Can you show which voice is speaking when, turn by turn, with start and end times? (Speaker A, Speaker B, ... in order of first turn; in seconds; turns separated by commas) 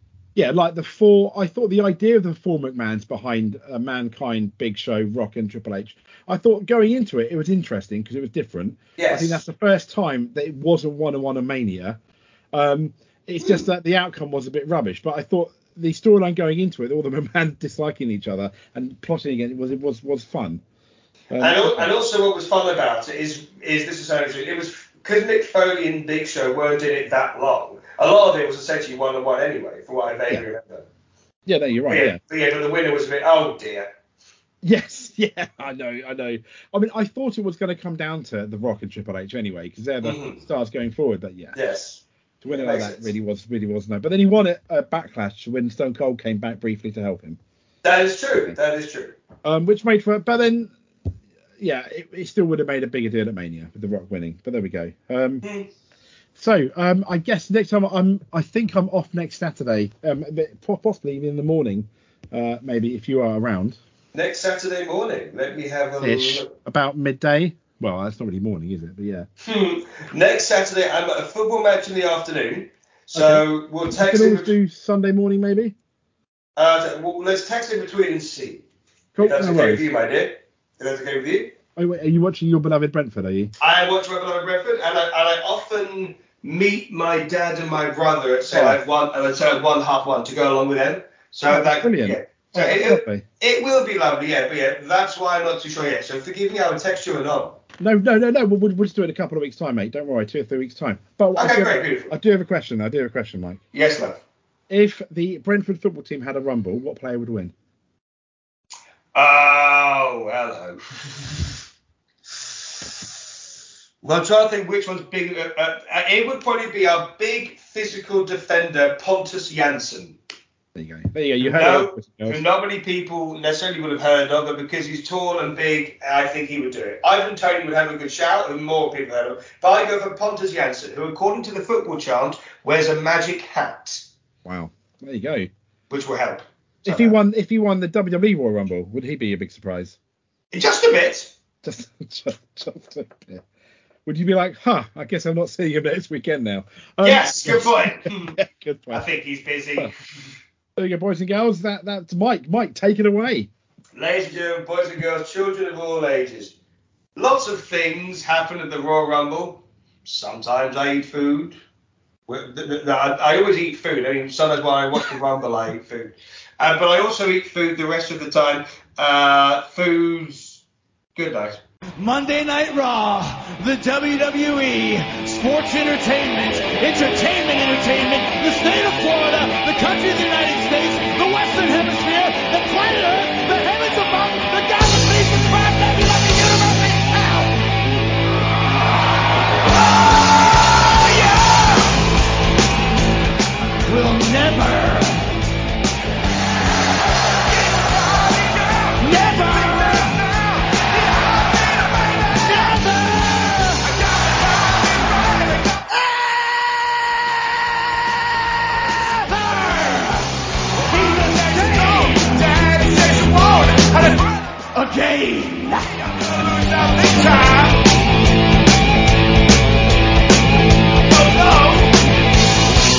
Speaker A: 0.4-12.0, Speaker B: 9.0-9.4, Speaker A: 12.5-20.6, Speaker A: 21.3-21.9, Speaker B: 21.4-30.9, Speaker A: 31.5-32.2, Speaker B: 31.9-33.9, Speaker A: 34.6-41.6, Speaker B: 40.0-40.4, Speaker B: 41.5-43.1, Speaker A: 42.4-47.4, Speaker B: 47.8-49.1, Speaker A: 49.5-50.7, Speaker A: 51.6-55.4, Speaker B: 55.4-55.7, Speaker A: 56.4-63.8, Speaker B: 64.1-66.5, Speaker A: 66.0-69.3, Speaker B: 69.4-74.5, Speaker A: 73.1-75.8, Speaker B: 76.6-78.6, Speaker A: 79.2-79.8, Speaker B: 79.2-81.5, Speaker A: 81.8-83.5, Speaker B: 83.6-97.6, Speaker A: 88.5-88.8, Speaker A: 91.5-93.2, Speaker A: 97.8-103.6, Speaker B: 101.4-102.1, Speaker B: 103.7-104.2, Speaker A: 104.7-107.5, Speaker B: 109.1-111.4, Speaker B: 114.0-120.2, Speaker A: 120.8-122.4, Speaker B: 121.4-134.1, Speaker A: 134.4-135.5, Speaker B: 135.9-137.2, Speaker A: 136.8-140.0, Speaker B: 140.5-141.3, Speaker A: 141.6-143.4, Speaker A: 144.1-149.1, Speaker B: 147.0-148.4, Speaker B: 148.9-149.9, Speaker A: 150.8-153.5, Speaker B: 153.9-156.6, Speaker B: 157.2-161.6, Speaker B: 162.3-170.6, Speaker B: 171.2-171.6, Speaker C: 172.0-187.6, Speaker C: 190.1-192.0, Speaker C: 193.8-195.3, Speaker C: 197.5-206.2, Speaker C: 209.0-210.3, Speaker C: 210.9-217.8, Speaker C: 221.1-222.0